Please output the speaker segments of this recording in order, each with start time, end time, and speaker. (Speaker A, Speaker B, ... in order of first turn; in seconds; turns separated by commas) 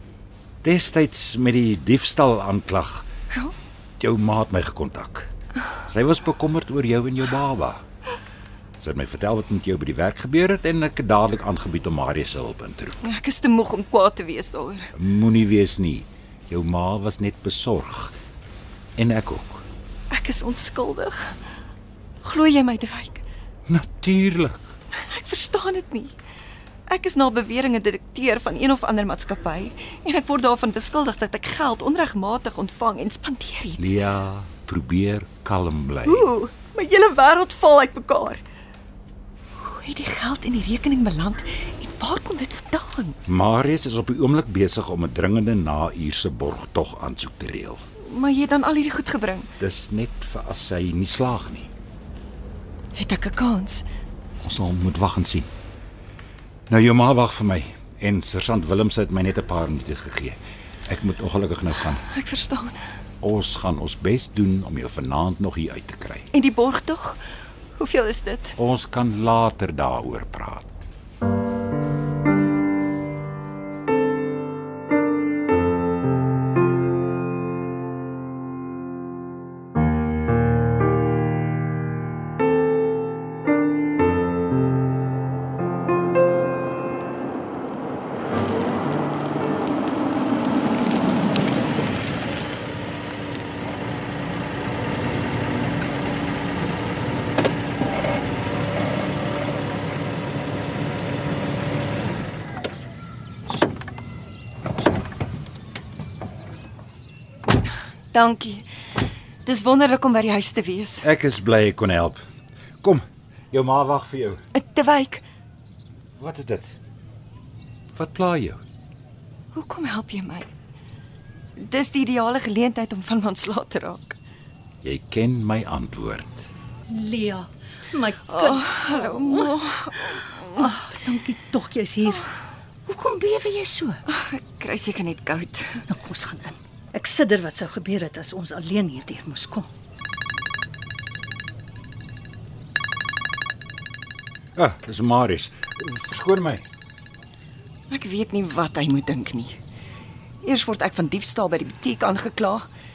Speaker A: 0.6-3.1, Speaker A: 4.0-5.3, Speaker A: 5.9-7.8, Speaker A: 8.8-13.0, Speaker B: 13.0-14.9, Speaker A: 14.9-18.2, Speaker A: 19.0-19.6, Speaker B: 20.1-21.4, Speaker B: 22.2-23.2, Speaker A: 23.7-24.7, Speaker B: 25.0-26.1, Speaker B: 26.9-34.0, Speaker A: 33.8-36.3, Speaker B: 36.1-38.4, Speaker B: 39.6-43.2, Speaker A: 43.3-47.8, Speaker B: 48.0-49.5, Speaker A: 49.6-51.7, Speaker B: 53.0-53.8, Speaker A: 54.4-55.5, Speaker A: 56.7-62.0, Speaker B: 62.0-62.9, Speaker A: 63.2-66.3, Speaker B: 66.3-67.2, Speaker B: 67.8-68.6, Speaker A: 68.6-70.8, Speaker B: 108.1-108.7, Speaker B: 109.5-111.1, Speaker A: 111.0-112.2, Speaker A: 112.8-114.4, Speaker B: 114.5-115.2, Speaker A: 116.2-116.8, Speaker A: 117.9-118.6, Speaker B: 119.5-120.5, Speaker B: 121.6-124.2, Speaker A: 124.8-126.5, Speaker C: 126.9-132.3, Speaker B: 128.3-130.7, Speaker C: 132.9-134.0, Speaker B: 134.1-135.8, Speaker C: 135.9-139.7, Speaker A: 144.6-146.7, Speaker B: 147.9-149.6, Speaker B: 150.4-152.7